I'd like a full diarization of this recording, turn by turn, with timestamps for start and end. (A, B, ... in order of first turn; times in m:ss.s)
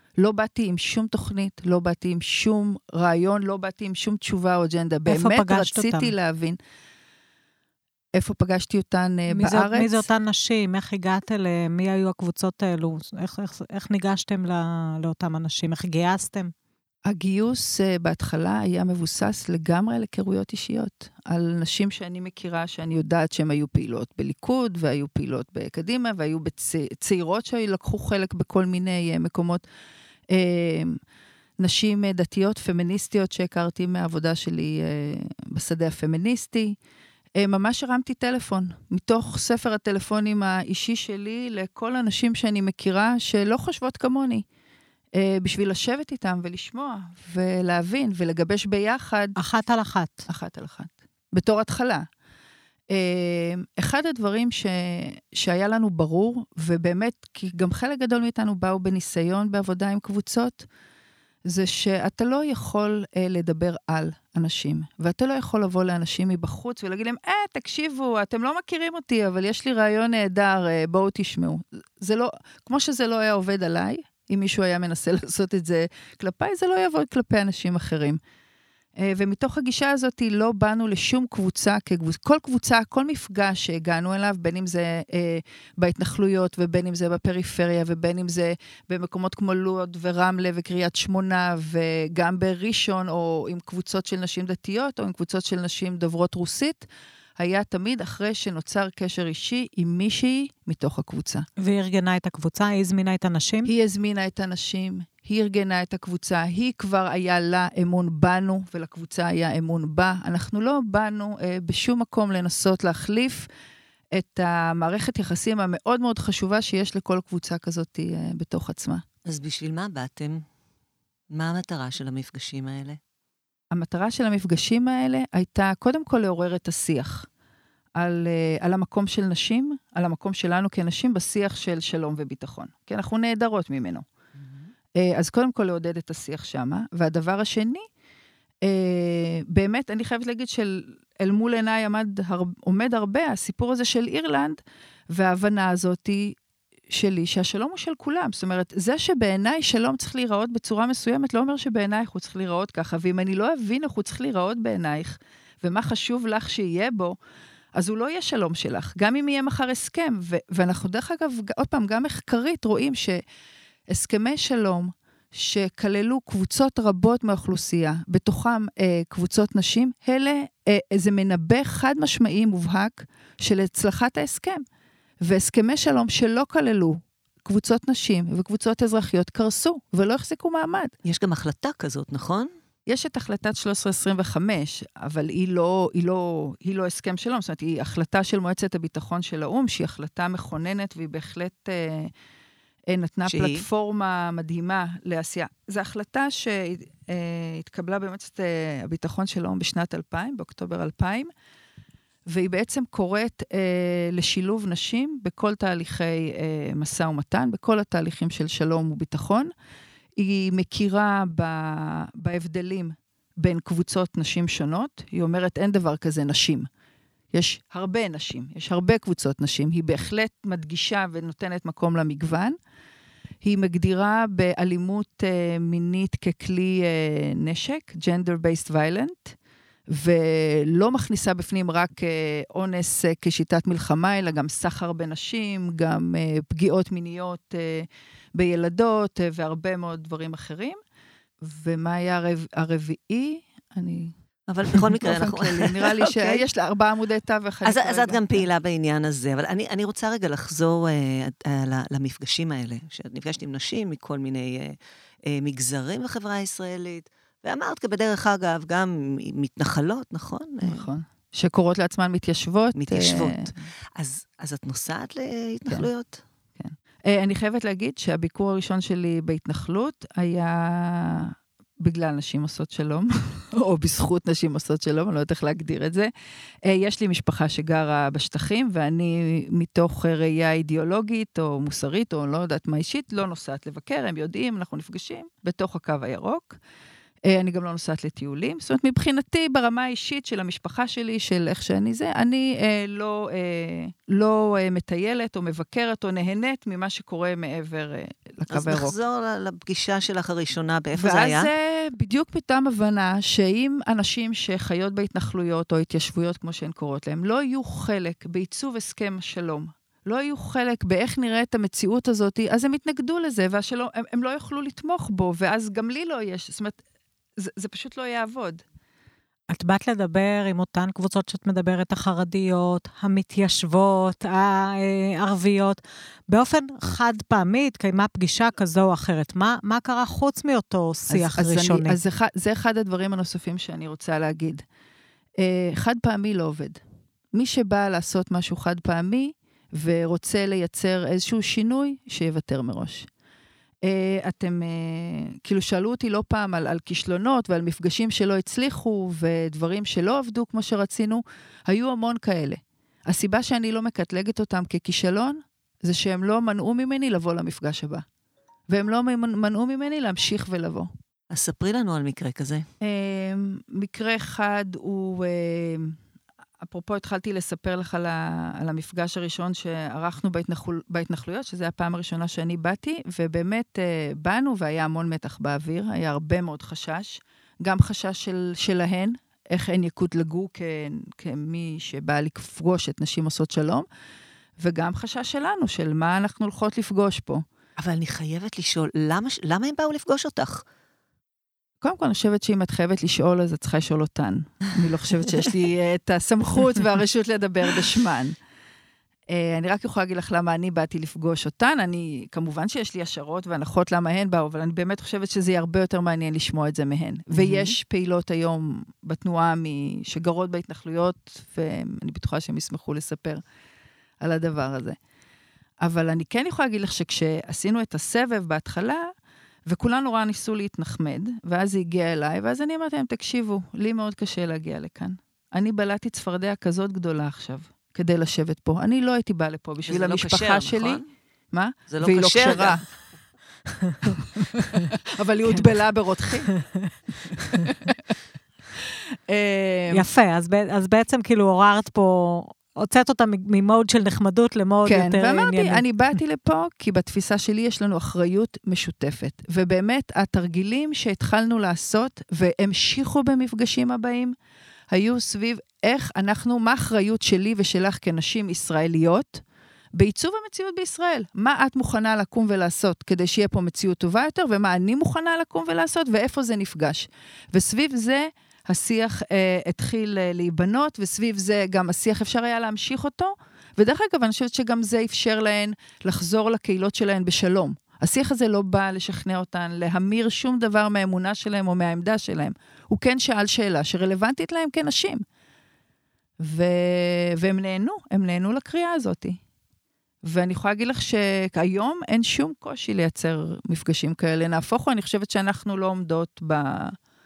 0:00.2-0:06.6 A
0:05.1-0:06.1 B
0:08.1-0:10.1 A
0:09.3-0:16.5 B
0:17.1-0:29.6 A
0:30.3-0:31.0 A
0:31.6-0:36.8 A
0:37.4-0:44.4 A
0:45.1-0:49.4 A
0:49.4-0:50.3 B
0:50.3-0:52.1 A
0:52.9-1:00.6 A
1:01.5-1:18.2 A
1:19.0-1:36.8 A
1:37.4-1:41.4 A
1:41.6-1:43.7 B
1:43.6-1:53.5 A
1:54.1-1:59.0 A
1:59.2-2:00.4 C
2:01.3-2:03.0 C
2:03.7-2:07.3 A
2:08.0-2:14.0 A
2:15.0-2:17.8 A
2:18.6-2:24.6 A
2:25.1-2:26.4 A
2:26.9-2:37.2 A
2:37.7-2:43.2 A
2:43.9-2:54.6 A
2:55.2-3:00.9 A
3:01.0-3:02.5 C
3:02.9-3:12.1 A
3:12.9-3:21.3 A
3:13.3-3:13.6 C
3:22.3-3:29.5 A
3:30.2-3:36.7 A
3:37.3-3:42.6 A
3:43.4-3:49.4 A
3:49.9-4:00.8 A
4:01.4-4:04.1 A
4:04.5-4:06.4 C
4:04.7-4:08.4 A
4:07.6-4:20.9 C
4:20.6-4:23.5 A
4:22.7-4:26.2 C
4:26.6-4:36.1 A
4:36.6-4:46.6 A
4:47.3-4:59.0 A
4:58.5-5:01.5 C
5:01.0-5:16.8 A
5:17.4-5:18.6 A
5:19.5-5:32.0 B
5:31.1-5:34.6 A
5:35.4-5:36.8 A
5:37.3-5:43.1 A
5:43.8-5:58.0 A
5:58.7-6:00.9 A
6:01.3-6:02.6 C
6:02.8-6:06.0 A
6:06.6-6:23.9 A
6:24.6-6:27.4 A
6:27.8-6:30.6 C
6:31.8-6:38.4 A
6:39.3-6:53.4 A
6:47.3-6:47.7 C
6:54.2-6:55.0 A
6:55.8-6:59.1 A
6:59.7-7:12.8 A
7:09.9-7:11.0 C
7:11.9-7:12.8 C
7:14.4-7:16.5 A
7:17.5-7:17.9 A
7:19.3-7:20.1 A
7:19.9-7:25.8 B
7:24.8-7:34.3 A
7:34.9-7:39.4 A
7:39.9-8:05.2 A
8:06.4-8:09.4 A
8:10.2-8:17.0 A